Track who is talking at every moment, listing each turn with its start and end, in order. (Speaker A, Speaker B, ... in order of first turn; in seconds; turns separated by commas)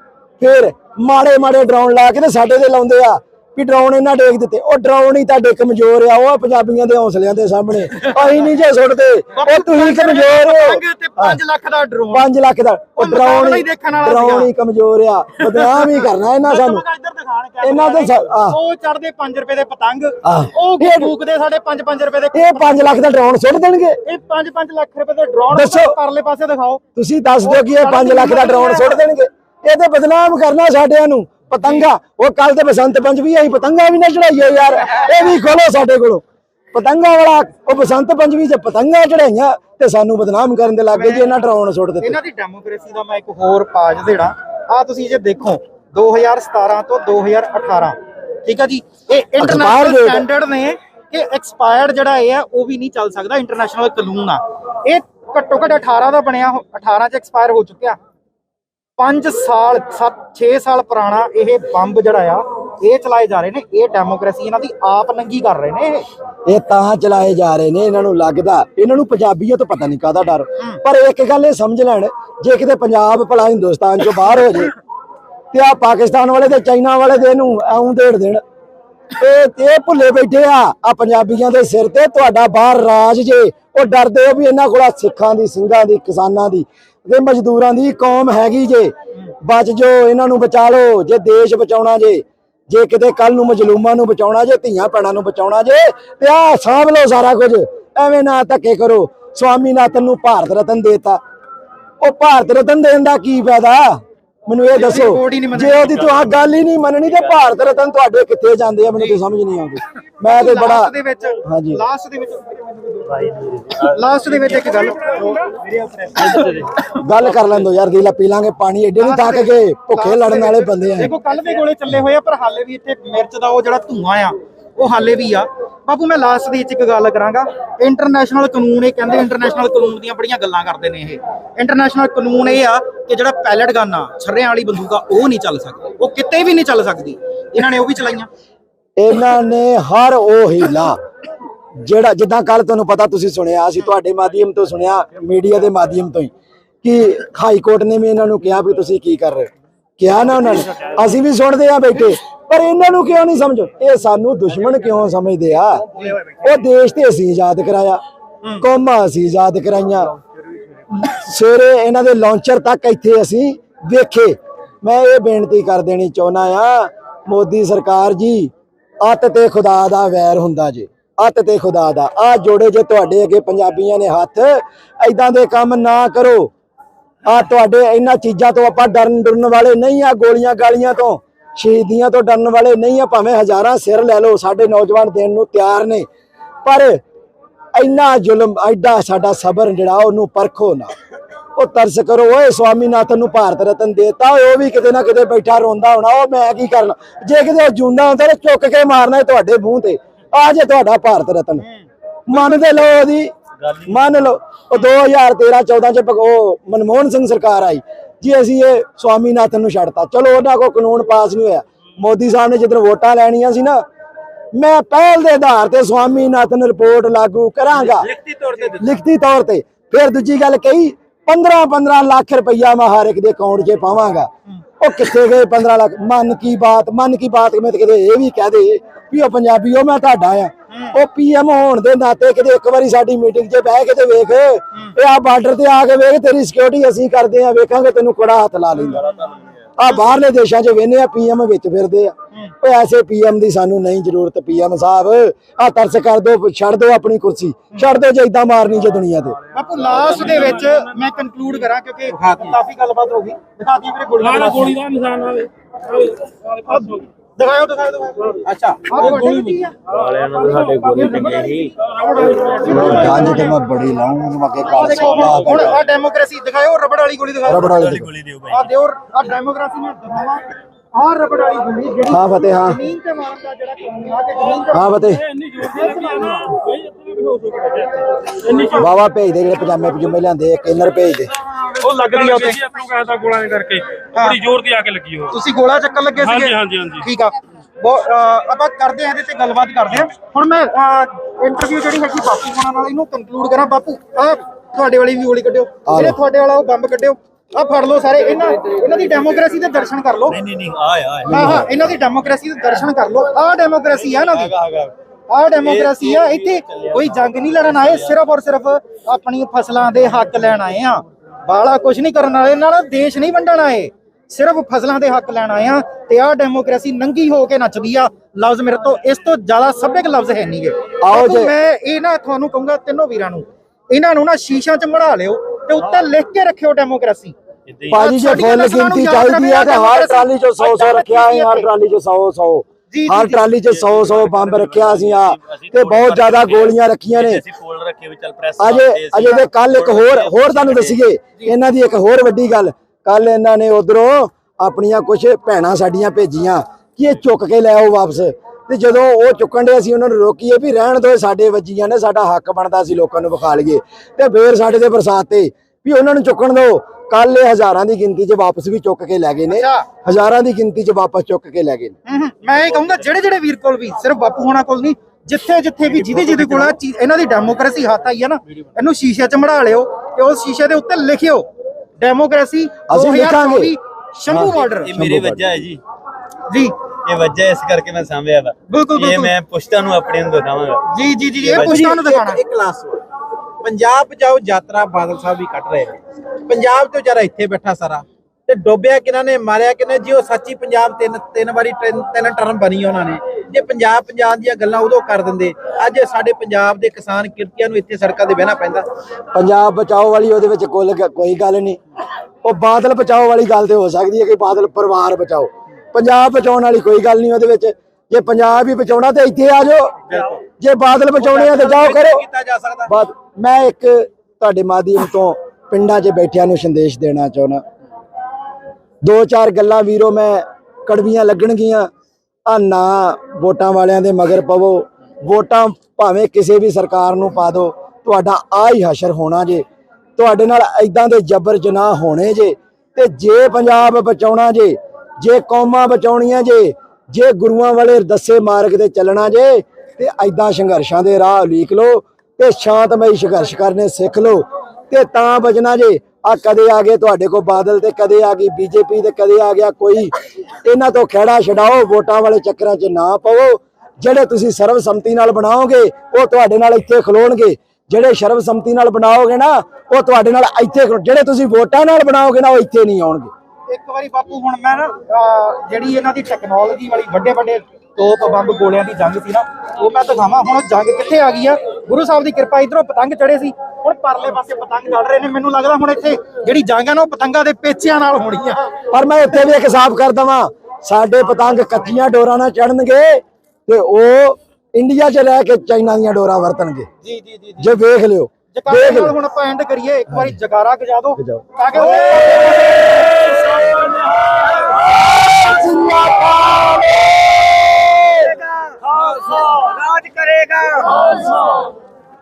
Speaker A: 0.4-11.4, Speaker B: 9.3-12.3, Speaker A: 12.1-16.8, Speaker B: 13.0-14.5, Speaker B: 15.4-22.8, Speaker A: 17.6-18.6, Speaker A: 20.2-21.2, Speaker A: 22.3-24.0, Speaker B: 24.0-26.8, Speaker A: 25.5-26.0, Speaker A: 26.9-42.2, Speaker B: 27.4-29.0, Speaker B: 40.9-41.3, Speaker B: 42.0-58.0, Speaker A: 49.4-50.3, Speaker B: 59.0-66.1, Speaker A: 66.5-74.7, Speaker A: 75.5-78.4, Speaker A: 79.2-101.2, Speaker A: 102.0-110.9, Speaker B: 104.7-106.2, Speaker C: 105.8-106.4, Speaker C: 107.0-107.4, Speaker B: 110.2-115.6, Speaker A: 111.5-111.8, Speaker C: 113.1-113.9, Speaker C: 115.7-116.6, Speaker B: 116.2-116.7, Speaker A: 116.8-121.1, Speaker B: 119.0-138.3, Speaker A: 139.0-141.0, Speaker A: 141.8-146.3, Speaker A: 146.8-149.5, Speaker A: 150.0-155.8, Speaker A: 156.4-158.0, Speaker A: 158.6-160.2, Speaker A: 160.9-176.5, Speaker A: 177.3-186.1, Speaker A: 186.7-187.0, Speaker A: 187.8-190.9, Speaker A: 191.6-201.7, Speaker A: 202.3-203.3, Speaker C: 203.6-204.3, Speaker A: 203.9-213.8, Speaker A: 214.5-218.1, Speaker D: 217.7-218.9, Speaker A: 218.8-239.1, Speaker B: 230.7-231.0, Speaker C: 238.9-239.6, Speaker B: 238.9-239.2, Speaker A: 239.8-249.4, Speaker B: 249.5-254.8, Speaker D: 252.1-252.6, Speaker E: 254.3-256.6, Speaker B: 256.6-259.8, Speaker D: 258.4-259.6, Speaker C: 259.9-261.7, Speaker E: 260.5-261.0, Speaker B: 260.6-263.5, Speaker A: 262.7-265.8, Speaker B: 264.7-267.8, Speaker C: 265.2-265.7, Speaker A: 267.5-268.1, Speaker C: 267.5-268.7, Speaker B: 268.5-274.9, Speaker A: 272.1-272.8, Speaker A: 274.7-275.3, Speaker E: 275.3-278.8, Speaker B: 275.6-276.5, Speaker A: 278.8-281.3, Speaker B: 281.6-282.7, Speaker E: 282.0-285.3, Speaker B: 284.1-284.4, Speaker B: 285.3-300.4, Speaker E: 286.2-287.0, Speaker A: 295.9-296.2, Speaker C: 300.3-301.7, Speaker A: 301.3-301.7, Speaker B: 301.3-304.5, Speaker C: 303.9-304.9, Speaker B: 305.3-327.4, Speaker C: 305.6-308.2, Speaker A: 321.0-321.5, Speaker C: 327.7-328.0, Speaker A: 327.9-337.4, Speaker B: 327.9-331.7, Speaker B: 332.9-333.4, Speaker C: 333.3-341.0, Speaker A: 338.6-361.9, Speaker B: 359.5-359.9, Speaker B: 362.1-371.5, Speaker B: 372.0-374.9, Speaker A: 372.9-373.8, Speaker A: 374.3-375.6, Speaker C: 374.5-375.8, Speaker B: 376.5-376.8, Speaker C: 377.1-380.8, Speaker B: 378.7-379.3, Speaker B: 380.9-382.4, Speaker C: 381.4-381.8, Speaker D: 381.4-383.0, Speaker D: 383.6-398.9, Speaker A: 399.3-401.8, Speaker A: 402.4-412.2, Speaker D: 410.1-410.4, Speaker D: 411.2-412.9, Speaker A: 412.9-417.6, Speaker A: 419.0-421.9, Speaker A: 422.5-429.6, Speaker A: 430.2-450.1, Speaker A: 450.6-463.3, Speaker B: 463.7-478.7, Speaker A: 478.9-486.9, Speaker D: 487.1-487.6, Speaker A: 487.6-489.2, Speaker B: 488.5-493.4, Speaker A: 490.1-490.4, Speaker A: 491.2-498.4, Speaker C: 493.6-493.9, Speaker C: 498.8-501.4